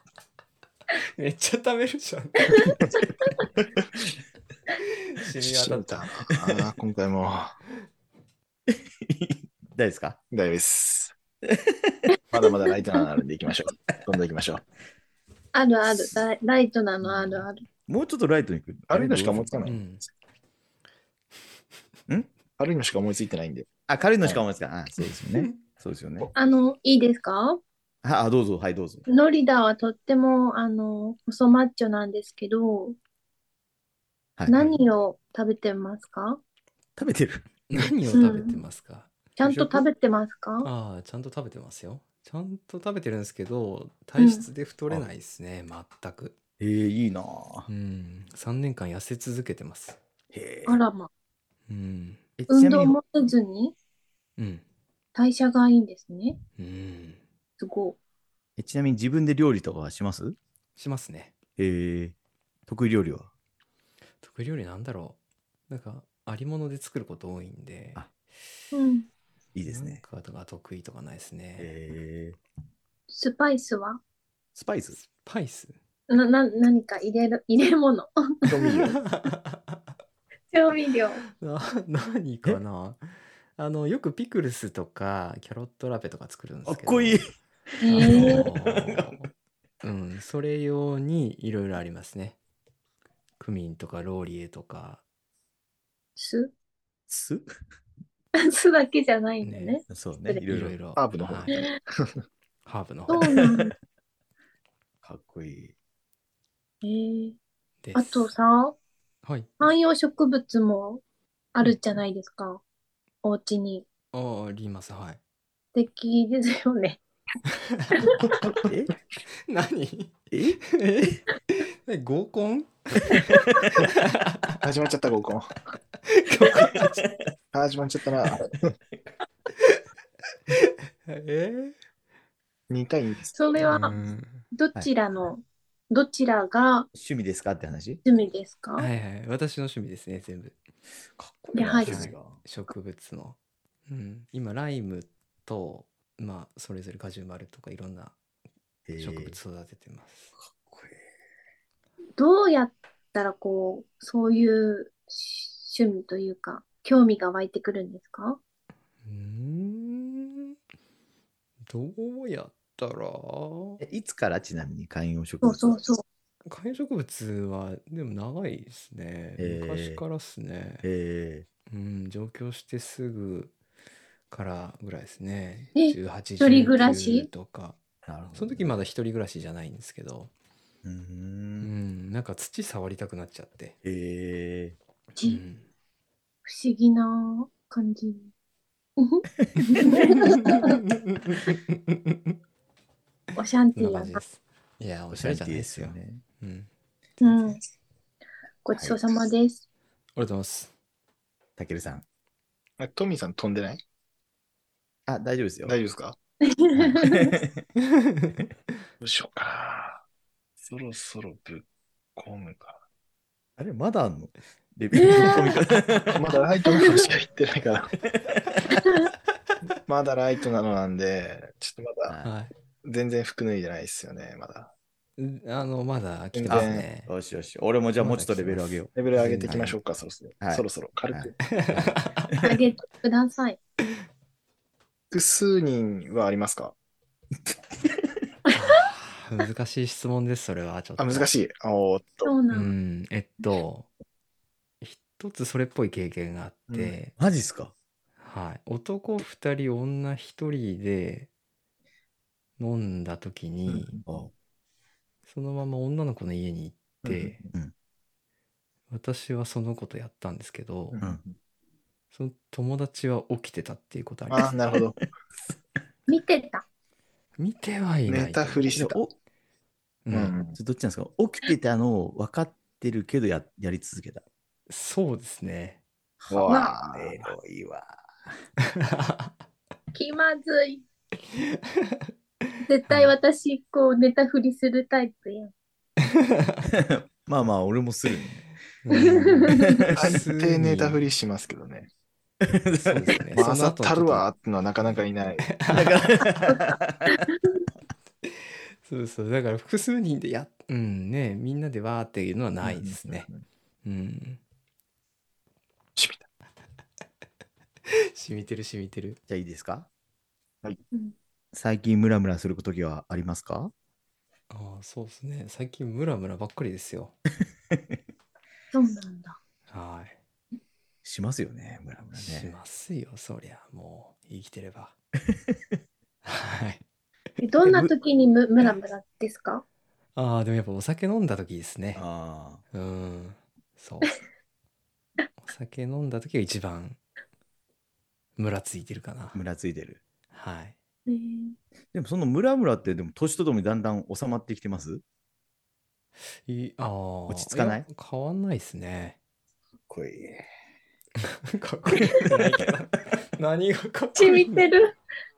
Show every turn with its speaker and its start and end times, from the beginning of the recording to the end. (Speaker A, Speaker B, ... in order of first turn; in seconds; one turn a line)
Speaker A: 1.1-2.7
Speaker A: 5.0-6.0
Speaker B: 5.3-7.5
Speaker C: 8.7-10.2
Speaker B: 10.3-11.1
Speaker C: 11.5-12.1
Speaker B: 12.3-14.6
Speaker D: 15.5-17.6
Speaker C: 17.3-19.8
Speaker B: 18.9-19.9
Speaker A: 19.6-20.0
Speaker B: 22.6-23.7
Speaker C: 23.9-26.3
Speaker D: 26.3-27.6
Speaker C: 28.0-29.0
Speaker D: 29.1-33.0
Speaker C: 34.4-34.8
Speaker D: 34.5-36.4
Speaker C: 37.0-37.9
Speaker A: 37.7-39.8
Speaker D: 38.1-38.6
Speaker D: 39.4-40.7
Speaker A: 40.6-46.3
Speaker D: 44.2-44.5
Speaker C: 46.6-47.7
Speaker A: 47.7-50.0
Speaker C: 50.3-50.8
Speaker D: 50.6-51.1
Speaker A: 51.7-52.2
Speaker C: 52.4-53.0
Speaker D: 52.5-53.7
Speaker A: 54.4-54.6
Speaker D: 55.1-56.4
Speaker A: 56.6-57.2
Speaker D: 57.6-58.0
Speaker C: 58.6-60.4
Speaker A: 60.8-61.3
Speaker C: 61.6-62.1
Speaker C: 62.7-63.3
Speaker A: 64.2-65.2
Speaker A: 65.7-68.0
Speaker D: 68.7-69.1
Speaker C: 69.5-70.0
Speaker A: 69.7-71.7
Speaker C: 71.6-72.4
Speaker D: 73.1-74.0
Speaker C: 74.5-75.0
Speaker A: 74.9-75.8
Speaker D: 76.1-78.5
Speaker B: 78.5-79.0
Speaker A: 79.0-79.8
Speaker D: 80.5-81.2
Speaker A: 81.4-83.0
Speaker A: 83.6-87.2
Speaker C: 86.7-87.3
Speaker C: 87.8-89.2
Speaker D: 87.8-88.5
Speaker A: 87.9-89.3
Speaker A: 89.8-92.4
Speaker A: 93.4-95.0
Speaker D: 96.2-96.5
Speaker C: 97.1-97.5
Speaker D: 98.3-100.4
Speaker A: 99.4-99.8
Speaker C: 99.9-101.5
Speaker A: 100.5-101.5
Speaker B: 101.0-102.1
Speaker A: 102.7-103.3
Speaker D: 103.1-103.7
Speaker C: 103.2-103.7
Speaker C: 105.0-105.7
Speaker D: 106.8-107.4
Speaker A: 107.8-108.3
Speaker D: 107.9-108.8
Speaker A: 109.2-109.5
Speaker D: 109.6-111.0
Speaker D: 111.5-112.6
Speaker D: 113.2-113.8
Speaker A: 114.1-115.2
Speaker D: 115.7-117.0
Speaker A: 117.7-118.1
Speaker C: 118.4-118.9
Speaker A: 119.5-124.4
Speaker C: 120.3-120.6
Speaker B: 124.6-125.5
Speaker A: 126.1-127.0
Speaker B: 127.5-128.7
Speaker A: 131.1-131.7
Speaker B: 132.7-134.1
Speaker D: 133.3-133.9
Speaker A: 133.6-134.4
Speaker D: 134.5-136.9
Speaker C: 136.9-138.0
Speaker D: 138.0-138.9
Speaker A: 138.8-140.6
Speaker C: 141.2-142.4
Speaker A: 141.4-143.3
Speaker D: 141.5-142.0
Speaker A: 143.9-148.1
Speaker C: 148.8-149.4
Speaker A: 149.0-150.3
Speaker C: 150.4-151.0
Speaker D: 152.2-158.4
Speaker A: 159.0-160.6
Speaker A: 161.7-163.8
Speaker C: 163.8-165.8
Speaker D: 165.4-166.0
Speaker A: 166.4-170.8
Speaker C: 169.4-170.0
Speaker C: 170.8-171.4
Speaker A: 171.7-173.5
Speaker A: 174.3-177.8
Speaker D: 175.8-177.3
Speaker C: 178.0-178.7
Speaker A: 178.3-180.3
Speaker C: 180.8-181.7
Speaker A: 181.6-183.7
Speaker C: 183.8-184.8
Speaker D: 185.2-185.4
Speaker A: 185.2-185.7
Speaker D: 186.4-188.3
Speaker D: 189.0-190.8
Speaker A: 189.9-192.3
Speaker D: 193.3-194.2
Speaker A: 193.8-196.7
Speaker C: 195.1-196.2
Speaker D: 197.2-197.6
Speaker D: 198.6-199.6
Speaker A: 200.2-200.7
Speaker C: 201.6-202.0
Speaker B: 202.8-203.8
Speaker C: 205.1-205.8
Speaker B: 205.7-206.2
Speaker D: 206.4-207.4
Speaker C: 206.7-207.6
Speaker B: 209.0-210.0
Speaker B: 210.6-212.8
Speaker C: 213.6-216.4
Speaker D: 214.9-215.6
Speaker B: 216.1-217.9
Speaker D: 216.7-217.0
Speaker D: 218.7-219.1
Speaker B: 219.8-222.1
Speaker C: 222.1-222.3
Speaker A: 222.2-222.5
Speaker B: 222.8-224.7
Speaker A: 225.2-227.1
Speaker B: 226.3-226.8
Speaker C: 226.5-228.9
Speaker A: 228.0-229.7
Speaker B: 228.9-231.3
Speaker C: 229.5-229.7
Speaker C: 230.4-232.4
Speaker A: 231.4-232.3
Speaker D: 232.4-233.6
Speaker B: 235.1-236.7
Speaker A: 238.5-241.3
Speaker B: 241.0-242.3
Speaker D: 242.2-242.7
Speaker A: 242.5-243.9
Speaker A: 244.8-247.1
Speaker B: 246.7-246.9
Speaker C: 247.2-247.7
Speaker A: 248.2-251.3
Speaker A: 252.6-253.9
Speaker B: 253.7-254.2
Speaker C: 254.1-254.3
Speaker A: 255.3-257.4
Speaker B: 257.0-257.4
Speaker A: 258.9-261.0
Speaker B: 260.9-261.4
Speaker A: 262.1-264.5
Speaker B: 264.3-265.1
Speaker D: 266.1-266.6
Speaker A: 267.4-268.7
Speaker B: 268.1-269.0
Speaker C: 268.7-269.1
Speaker A: 270.1-270.3
Speaker B: 270.1-270.6
Speaker C: 270.5-274.2
Speaker A: 274.7-275.8
Speaker C: 276.2-278.4
Speaker B: 276.3-277.3
Speaker A: 278.8-279.3
Speaker D: 279.9-280.8
Speaker D: 282.6-285.5
Speaker A: 282.9-283.1
Speaker A: 286.1-286.6
Speaker C: 286.7-288.4
Speaker A: 288.8-291.0
Speaker D: 288.9-289.8
Speaker C: 289.5-289.9
Speaker B: 289.9-291.9
Speaker C: 292.4-293.3
Speaker A: 292.8-294.3
Speaker B: 293.3-295.5
Speaker A: 295.4-296.4
Speaker C: 295.7-297.2
Speaker D: 296.5-297.2
Speaker A: 298.8-303.3
Speaker B: 302.6-303.4
Speaker A: 303.8-304.4
Speaker B: 306.0-306.2
Speaker A: 307.9-309.2
Speaker C: 309.3-309.9
Speaker C: 311.5-313.7
Speaker A: 314.5-317.1
Speaker D: 318.7-319.4
Speaker A: 319.7-320.2
Speaker C: 321.0-322.5
Speaker A: 322.1-324.9
Speaker A: 326.2-326.8
Speaker D: 327.4-329.6
Speaker A: 327.6-327.9
Speaker A: 330.1-332.0
Speaker C: 331.9-332.6
Speaker A: 332.7-334.2
Speaker A: 335.4-337.0
Speaker A: 338.4-339.4
Speaker C: 339.3-340.0
Speaker A: 340.3-340.8
Speaker D: 341.1-341.6
Speaker C: 341.9-345.0
Speaker A: 346.4-349.2
Speaker C: 347.3-347.9
Speaker C: 349.9-350.5
Speaker A: 351.3-354.6
Speaker C: 351.9-352.3
Speaker D: 354.1-354.9